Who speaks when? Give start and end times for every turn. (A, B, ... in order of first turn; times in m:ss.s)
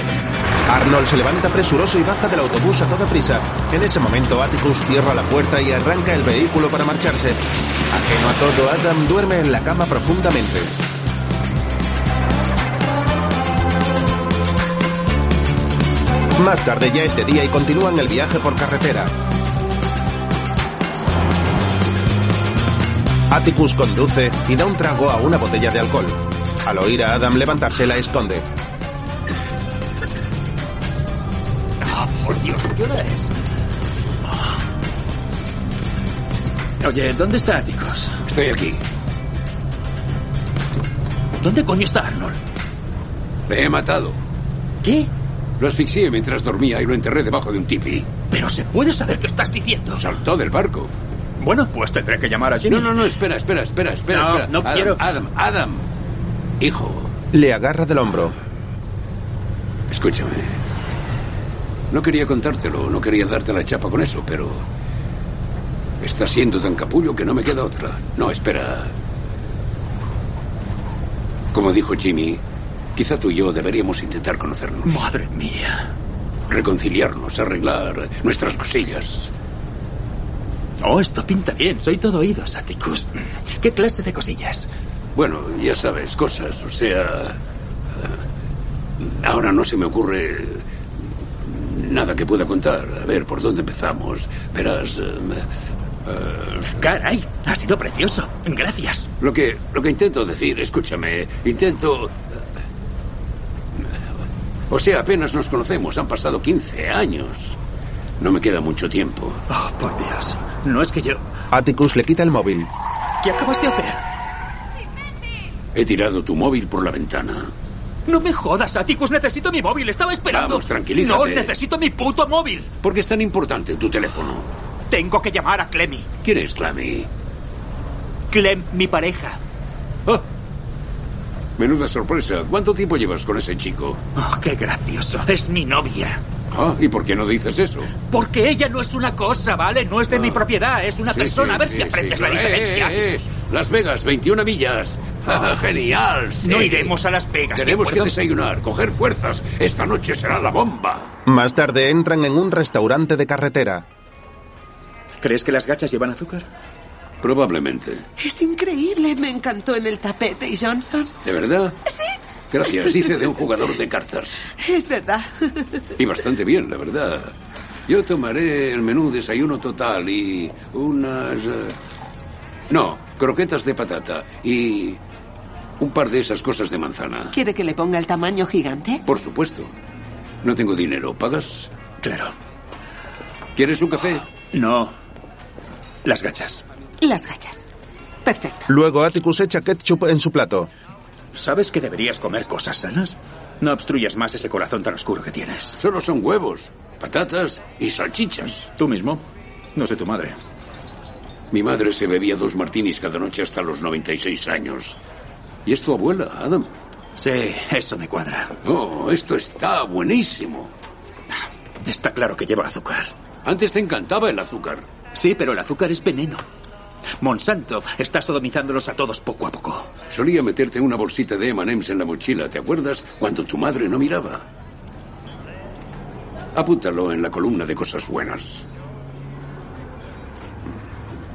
0:00.7-0:10.7 A
0:16.3-0:19.1 A
0:23.3-0:28.5 A
0:31.8-0:33.3 B
0:36.8-0:38.2 B
0:38.2-0:38.8 C
0:41.4-0:42.4 B
0:43.5-0:44.2 C
0:44.8-0:45.1 B
0:45.6-0:48.1 C
0:48.3-0:50.0 B
0:49.9-0:50.9 C
0:51.4-0:53.0 B
0:52.7-0:55.8 C
0:54.1-0:55.0 B
0:56.6-0:57.1 C
0:57.3-0:58.4 A
0:59.9-1:00.6 C
1:01.9-1:04.6 C
1:06.0-1:08.9 C
1:11.5-1:12.4 C
1:13.0-1:15.0 C
1:14.8-1:15.9 B
1:16.5-1:19.3 C
1:20.8-1:24.7 B
1:25.1-1:27.4 C
1:29.0-1:30.6 C
1:31.4-1:35.5 C
1:36.0-1:36.8 C
1:36.8-1:39.1 B
1:39.2-1:42.2 C
1:44.7-1:47.6 C
1:48.2-1:49.4 C
1:49.5-1:51.2 B
1:51.5-1:52.7 A
1:53.2-1:54.0 B
1:55.7-1:57.5 C
1:58.1-2:02.7 B
2:00.3-2:01.5 C
2:02.8-2:04.5 C
2:04.9-2:06.1 B
2:06.2-2:07.1 C
2:08.3-2:09.4 B
2:11.6-2:14.0 C
2:14.2-2:16.2 B
2:16.5-2:17.9 C
2:18.1-2:23.0 B
2:20.1-2:20.4 C
2:21.1-2:26.9 C
2:26.4-2:28.1 B
2:27.5-2:31.1 C
2:31.2-2:33.8 A
2:35.2-2:36.5 B
2:37.2-2:38.1 C
2:38.2-2:41.1 D
2:41.2-2:41.8 C
2:41.8-2:42.1 D
2:42.5-2:44.4 C
2:42.7-2:43.1 D
2:44.6-2:45.8 D
2:46.0-2:47.3 C
2:47.9-2:51.7 C
2:52.7-2:55.0 C
2:55.8-2:57.3 C
2:57.3-2:59.0 D
2:59.0-2:59.7 C
3:00.4-3:01.7 C
3:02.0-3:02.3 B
3:03.6-3:04.2 C
3:04.5-3:04.9 B
3:06.0-3:06.6 B
3:07.0-3:07.6 D
3:08.2-3:08.7 D
3:08.7-3:10.7 A
3:11.3-3:15.8 B
3:15.8-3:18.7 C
3:18.7-3:19.2 B
3:19.7-3:20.4 B
3:21.5-3:25.0 C
3:25.6-3:26.7 C
3:27.2-3:28.6 B
3:28.6-3:30.7 C
3:31.8-3:33.1 B
3:33.4-3:34.8 C
3:35.1-3:36.4 B
3:37.2-3:39.9 B
3:40.1-3:44.4 C
3:46.5-3:48.6 C